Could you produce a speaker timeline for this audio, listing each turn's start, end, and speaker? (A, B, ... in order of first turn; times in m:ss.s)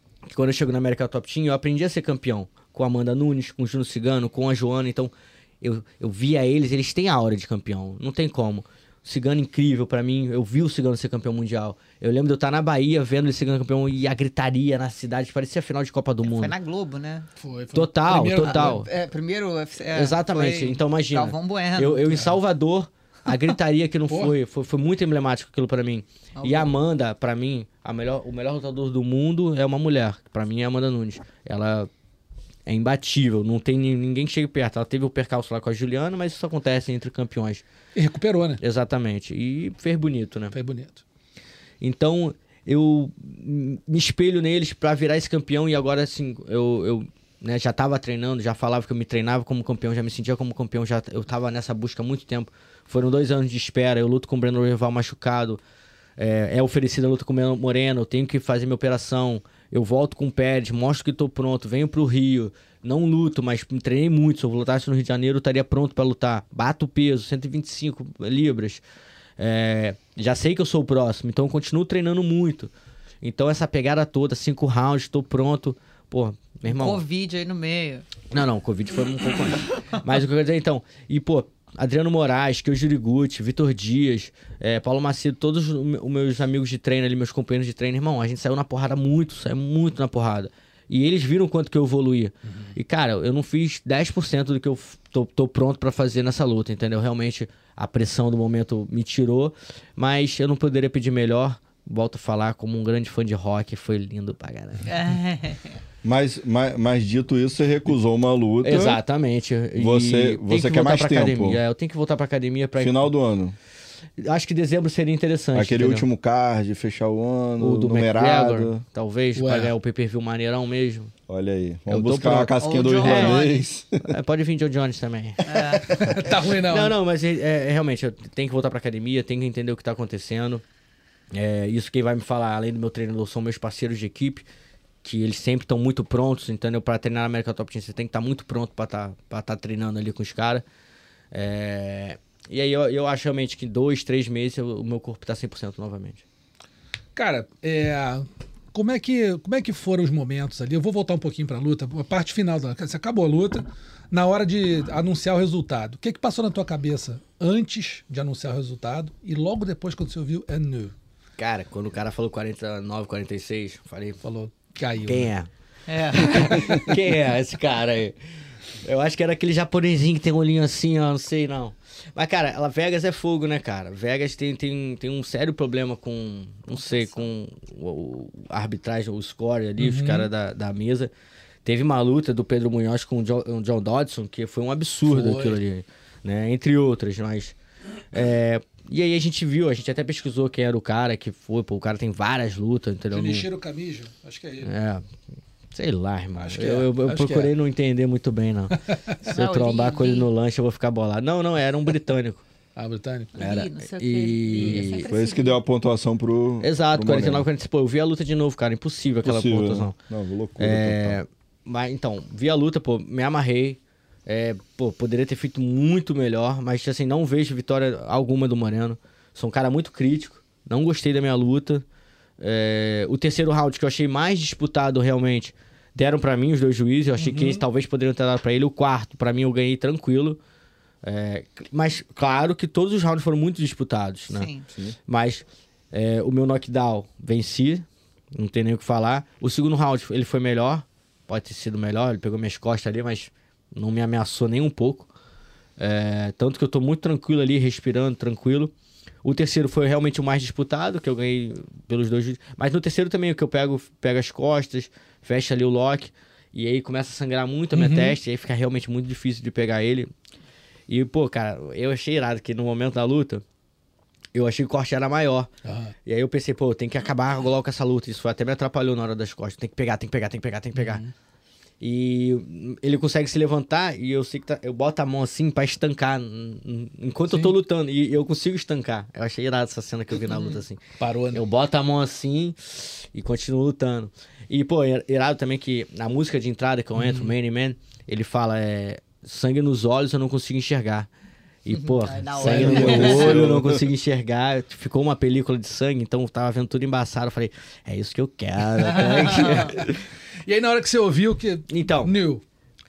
0:00.3-0:16.5 A
0:16.2-0:17.3 B
0:17.4-0:18.8 C
0:17.7-0:18.9 A
0:18.4-0:22.0 B
0:19.9-0:31.9 A
0:26.4-0:26.7 B
0:32.6-0:37.6 A
0:37.9-0:38.6 C
0:38.6-0:40.5 A
0:40.5-0:41.0 C
0:41.8-0:55.6 A
0:56.2-1:08.8 A
1:09.4-1:12.7 A
1:13.2-1:17.0 A
1:16.7-1:18.0 B
1:18.3-1:44.9 A
1:32.4-1:32.8 C
1:44.9-1:45.7 B
1:46.0-1:49.0 D
1:48.6-1:53.1 A
1:49.8-1:51.6 D
1:52.8-1:53.6 D
1:54.2-1:56.0 A
1:55.5-1:58.8 D
1:57.6-2:01.1 A
1:59.4-1:59.7 C
2:01.3-2:04.1 D
2:01.9-2:03.5 A
2:02.6-2:03.6 B
2:04.0-2:10.6 A
2:05.4-2:06.0 B
2:05.7-2:06.9 C
2:11.3-2:14.4 A
2:15.0-2:20.6 A
2:21.3-2:26.2 A
2:27.2-2:40.9 C
2:41.4-2:44.2 A
2:44.2-2:45.3 C
2:45.0-2:45.5 A
2:45.9-2:46.7 B
2:46.1-2:48.2 A
2:46.2-2:46.5 C
2:48.8-3:01.1 A
2:56.8-2:57.2 B
2:59.8-3:00.3 C
3:01.6-3:07.5 A
3:05.1-3:05.6 C
3:08.1-3:13.5 A
3:13.1-3:14.7 C
3:14.6-3:15.0 A
3:15.7-3:22.4 A
3:16.4-3:17.5 C
3:19.2-3:20.3 B
3:22.8-3:23.3 C
3:23.3-3:25.6 B
3:23.4-3:25.0 A
3:25.1-3:27.4 D
3:26.6-3:30.0 A
3:29.2-3:31.2 D
3:30.6-3:41.8 A
3:42.4-3:50.4 A
3:47.2-3:47.6 C
3:51.0-3:54.5 A
3:54.3-3:54.6 B
3:55.1-4:05.1 A
4:05.8-4:08.7 A
4:09.2-4:20.1 A
4:17.7-4:18.2 C
4:20.9-4:23.4 A
4:24.3-4:25.5 A
4:25.6-4:25.9 C
4:26.0-4:31.0 A
4:30.8-4:31.1 C
4:31.8-4:40.8 A
4:40.3-4:40.6 B
4:41.0-4:41.4 C
4:41.3-4:51.1 A
4:47.0-4:47.3 C
4:51.6-4:59.8 A
4:51.7-4:53.4 B
4:52.4-4:53.1 C
4:52.4-4:53.8 D
4:58.9-4:59.8 B
4:58.9-5:02.4 C
5:01.7-5:02.1 A